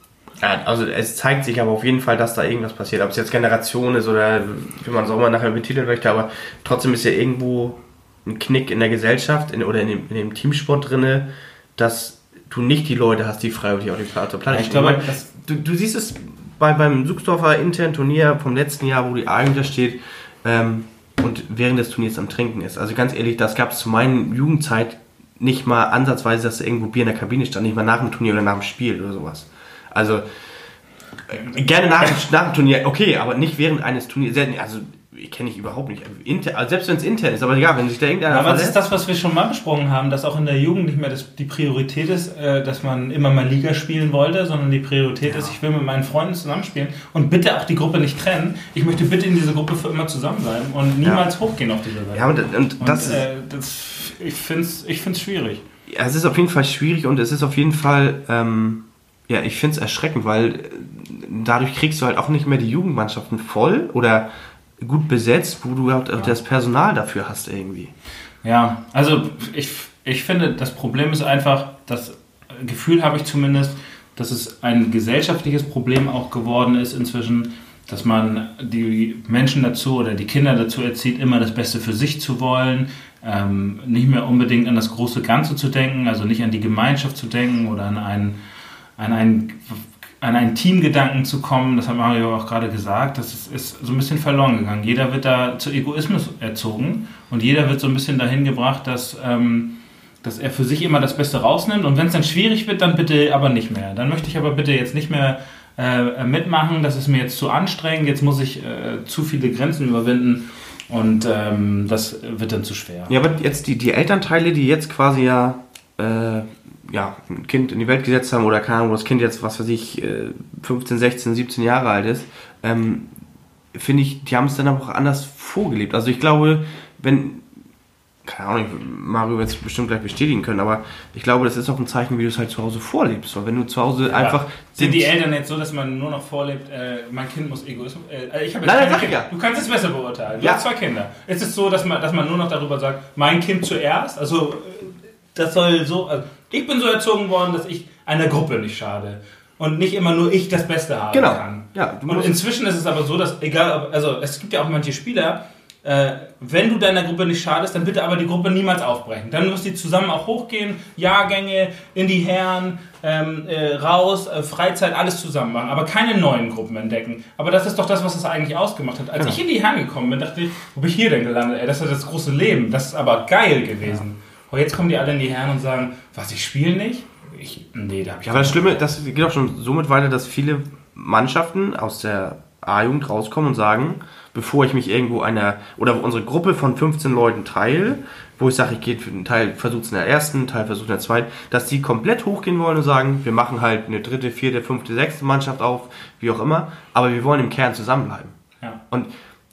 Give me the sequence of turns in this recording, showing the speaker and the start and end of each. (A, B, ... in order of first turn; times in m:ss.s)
0:00.4-0:30.2 A
0:14.5-0:15.3 B
0:31.3-0:38.8 A
0:38.3-0:55.6 B
0:52.1-0:53.2 A
0:55.9-1:04.3 A
1:04.8-1:07.9 A
1:08.4-1:28.4 B
1:29.0-1:53.1 B
1:53.1-2:03.1 A
2:03.7-2:07.4 A
2:08.2-2:15.1 A
2:14.1-2:58.8 B
2:18.6-2:19.3 A
2:20.4-2:20.6 A
2:31.1-2:32.4 A
2:58.2-3:18.3 A